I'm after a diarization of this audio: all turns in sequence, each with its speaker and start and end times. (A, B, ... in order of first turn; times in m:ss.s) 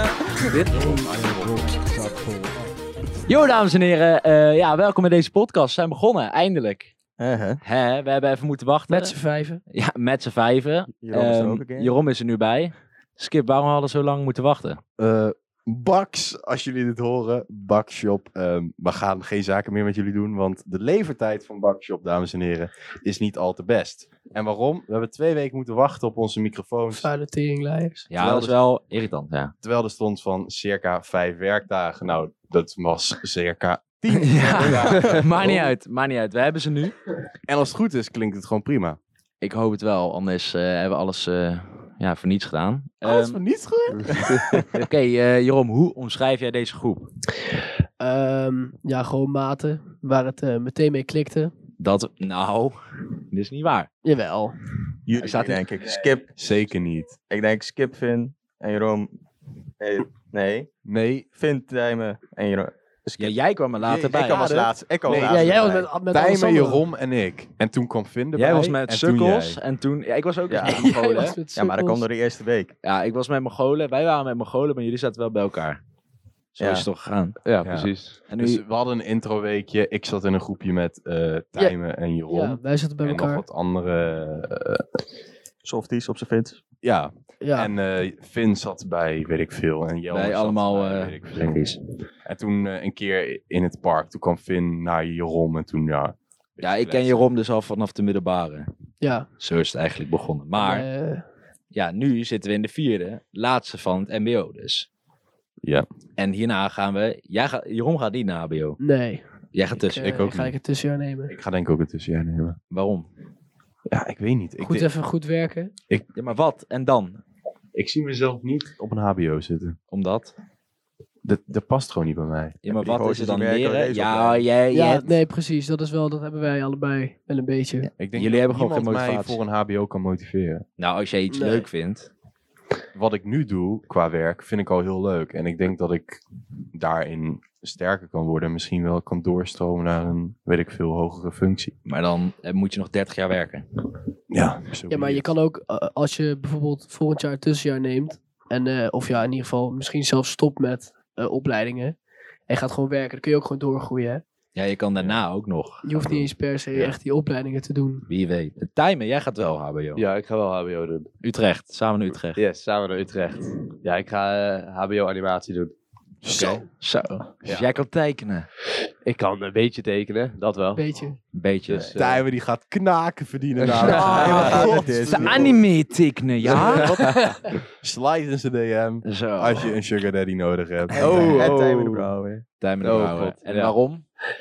0:00.4-0:01.8 A
0:00.4-0:06.9 B
0:07.2-0:07.6 C
0:07.6-0:09.2 B
0:08.9-0:09.6 D
0:09.7-0:14.8 B
0:11.0-0:11.9 C
0:15.0-0:27.1 A
0:26.9-0:28.1 D
0:28.1-0:29.5 B
0:28.2-0:28.5 A
0:29.6-0:35.7 A
0:34.1-0:37.0 B
0:34.6-0:35.0 E
0:34.9-0:35.2 C
0:37.5-0:39.0 A
0:39.4-0:43.4 B
0:43.0-0:44.8 A
0:44.7-0:47.1 B
0:48.0-0:51.5 D
0:51.8-0:52.8 B
0:53.3-0:53.9 B
0:54.0-0:54.6 D
0:55.1-0:56.3 C
0:55.2-0:55.6 B
0:56.4-0:57.2 A
0:57.3-0:59.1 C
0:59.8-1:00.7 C
1:00.8-1:01.3 A
1:01.3-1:03.3 C
1:03.2-1:04.5 B
1:03.8-1:09.6 A
1:04.1-1:05.9 C
1:05.1-1:06.8 D
1:08.3-1:11.4 B
1:10.5-1:10.9 C
1:10.6-1:12.0 D
1:11.5-1:12.7 C
1:12.8-1:15.8 B
1:16.5-1:17.4 B
1:16.6-1:16.9 C
1:17.5-1:18.2 E
1:17.6-1:24.9 A
1:18.3-1:18.6 B
1:21.6-1:23.4 D
1:25.6-1:26.6 C
1:26.8-1:31.7 A
1:27.4-1:27.7 D
1:30.1-1:31.8 B
1:32.2-1:37.3 A
1:36.6-1:38.7 B
1:39.0-1:39.3 D
1:39.4-1:40.9 B
1:40.6-1:41.2 D
1:41.7-1:44.9 B
1:46.2-1:48.8 B
1:48.8-1:49.2 D
1:49.5-1:50.2 B
1:49.9-1:51.3 D
1:50.0-1:50.6 A
1:51.3-1:52.6 A
1:52.7-1:53.1 B
1:53.9-1:54.9 A
1:54.6-1:55.7 D
1:56.1-1:57.2 B
1:57.8-1:59.8 A
1:59.9-2:00.3 B
2:01.2-2:02.6 A
2:02.6-2:05.2 B
2:02.7-2:04.4 C
2:04.7-2:07.9 D
2:08.0-2:10.7 A
2:08.0-2:09.4 B
2:10.8-2:12.1 B
2:11.3-2:11.7 D
2:12.9-2:16.2 A
2:16.7-2:21.7 A
2:21.9-2:23.6 B
2:24.3-2:25.3 A
2:24.9-2:32.0 D
2:32.5-2:34.2 D
2:34.6-2:37.0 B
2:35.0-2:35.2 A
2:35.8-2:38.1 D
2:38.1-2:40.0 B
2:40.0-2:41.1 E
2:41.2-2:42.4 B
2:42.4-2:45.7 E
2:46.2-2:48.5 B
2:49.0-2:50.8 E
2:50.8-2:51.2 D
2:51.3-2:51.9 B
2:51.7-2:52.2 E
2:52.0-2:55.6 A
2:53.7-2:54.4 E
2:53.8-2:57.0 B
2:53.8-2:54.6 D
2:54.2-2:55.6 C
2:56.4-3:01.0 A
2:56.6-2:57.2 E
2:59.0-2:59.8 B
3:01.0-3:01.5 B
3:01.0-3:02.1 E
3:01.0-3:02.4 C
3:02.6-3:04.0 B
3:02.8-3:03.7 E